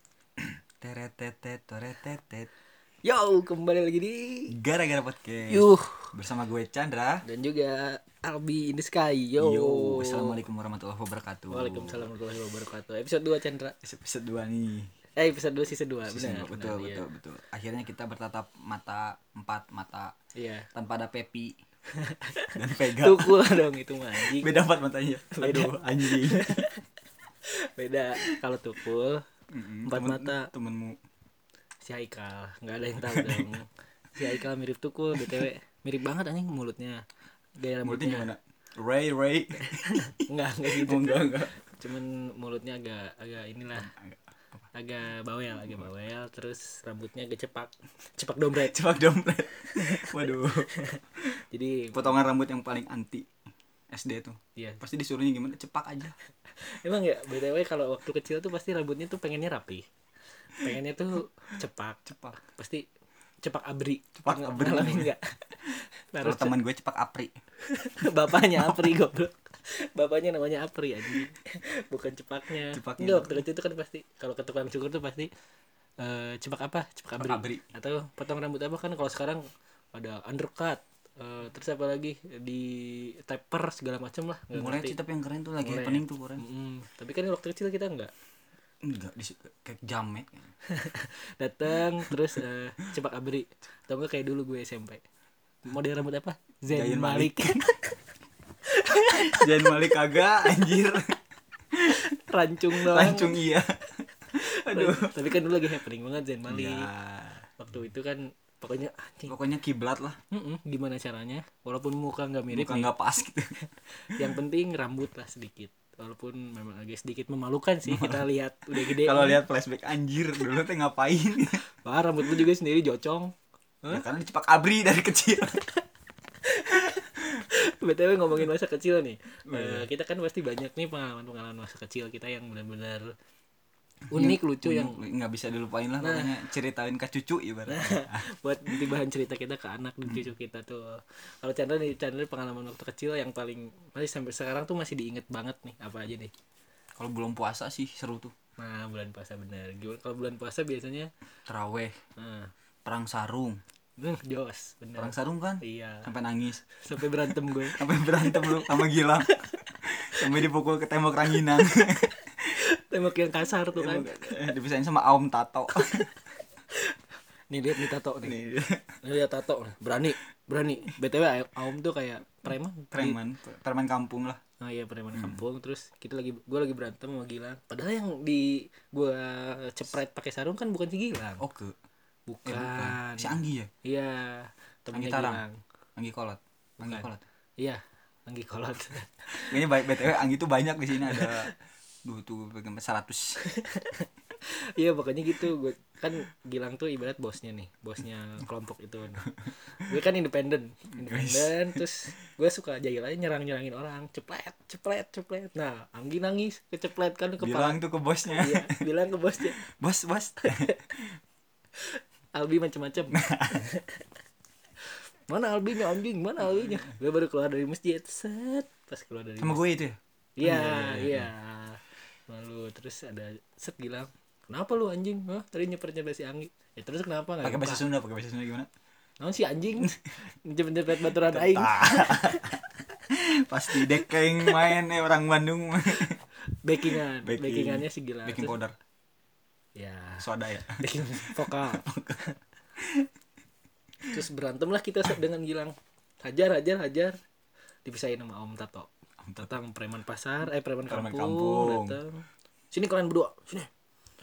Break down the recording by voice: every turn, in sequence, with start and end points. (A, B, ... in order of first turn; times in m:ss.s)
0:00.4-0:02.5 A
0:03.0-0:04.6 B
0:04.5-0:07.2 A
0:05.5-0:06.1 B
0:07.2-0:10.4 B
0:09.4-0:12.1 A
0:11.5-0:13.7 B
0:13.8-0:14.9 A
0:15.2-0:17.0 B
0:16.1-0:20.1 A
0:20.3-0:20.7 B
0:20.7-0:21.5 A
0:21.9-0:24.5 B
0:22.5-0:23.4 A
0:24.2-0:26.6 A
0:25.3-0:26.8 B
0:27.5-0:29.2 B
0:29.5-0:31.0 A
0:29.8-0:30.5 B
0:31.8-0:37.0 B
0:33.0-0:33.5 A
0:35.2-0:35.5 A
0:37.6-0:38.3 B
0:37.8-0:41.5 A
0:39.6-0:43.9 B
0:43.9-0:44.6 A
0:44.7-0:48.8 B
0:48.6-0:51.4 A
0:49.7-0:52.2 B
0:51.9-0:53.3 A
0:53.9-0:56.1 A
0:56.6-0:59.8 B
1:00.5-1:02.8 B
1:02.0-1:02.4 A
1:03.4-1:06.6 B
1:04.2-1:05.1 A
1:06.2-1:07.3 A
1:07.6-1:15.3 B
1:08.4-1:08.9 A
1:12.7-1:13.4 A
1:16.0-1:19.4 B
1:17.2-1:17.6 A
1:19.9-1:25.0 B
1:24.5-1:26.4 A
1:25.6-1:28.1 B
1:28.8-1:30.5 A
1:30.7-1:35.0 B
1:35.6-1:37.9 B
1:36.7-1:37.7 A
1:38.7-1:39.9 B
1:39.1-1:41.2 A
1:41.7-1:42.0 A
1:41.8-1:43.5 B
1:42.7-1:45.1 A
1:44.4-1:46.9 B
1:46.5-1:47.5 A
1:47.6-1:49.3 B
1:49.3-1:50.2 A
1:50.3-1:52.9 B
1:52.5-1:53.5 A
1:53.6-1:59.4 B
1:57.8-2:01.6 A
2:01.8-2:04.0 B
2:03.9-2:05.6 A
2:06.4-2:13.1 B
2:09.5-2:09.9 A
2:14.1-2:15.0 B
2:14.1-2:18.9 A
2:16.0-2:16.4 B
2:17.7-2:26.3 B
2:27.0-2:28.3 A
2:28.6-2:31.1 B
2:31.5-2:32.0 A
2:32.2-2:32.5 B
2:32.8-2:33.6 A
2:34.0-2:36.1 B
2:35.0-2:42.5 A
2:36.8-2:39.5 B
2:42.5-2:44.4 B
2:43.7-2:46.1 A
2:45.7-2:46.1 B
2:46.7-2:47.0 B
2:47.5-2:48.4 B
2:48.2-2:49.0 A
2:49.0-2:53.2 B
2:52.9-2:54.4 A
2:54.6-3:01.4 B
2:55.1-2:55.4 A
3:01.4-3:01.7 A
3:02.3-3:05.6 B
3:02.4-3:03.7 A
3:04.9-3:05.4 A
3:06.0-3:07.2 A
3:06.8-3:07.1 B
3:07.6-3:09.8 B
3:09.5-3:13.4 A
3:11.0-3:11.5 B
3:13.4-3:29.6 B
3:21.0-3:21.8 A
3:27.4-3:28.8 A
3:29.6-3:31.1 A
3:30.4-3:30.9 B
3:31.8-3:34.0 B
3:33.1-3:33.6 A
3:34.8-3:39.6 B
3:36.5-3:36.9 A
3:39.4-3:41.3 A
3:40.4-3:47.8 B
3:47.4-3:48.7 A
3:49.2-3:52.6 B
3:51.1-3:52.6 A
3:53.1-3:56.2 A
3:53.7-3:54.7 B
3:56.5-3:58.6 B
3:56.8-3:58.7 A
3:59.8-4:02.3 B
4:00.2-4:02.2 A
4:02.8-4:03.1 A
4:04.0-4:07.2 B
4:07.8-4:13.7 B
4:10.9-4:12.0 A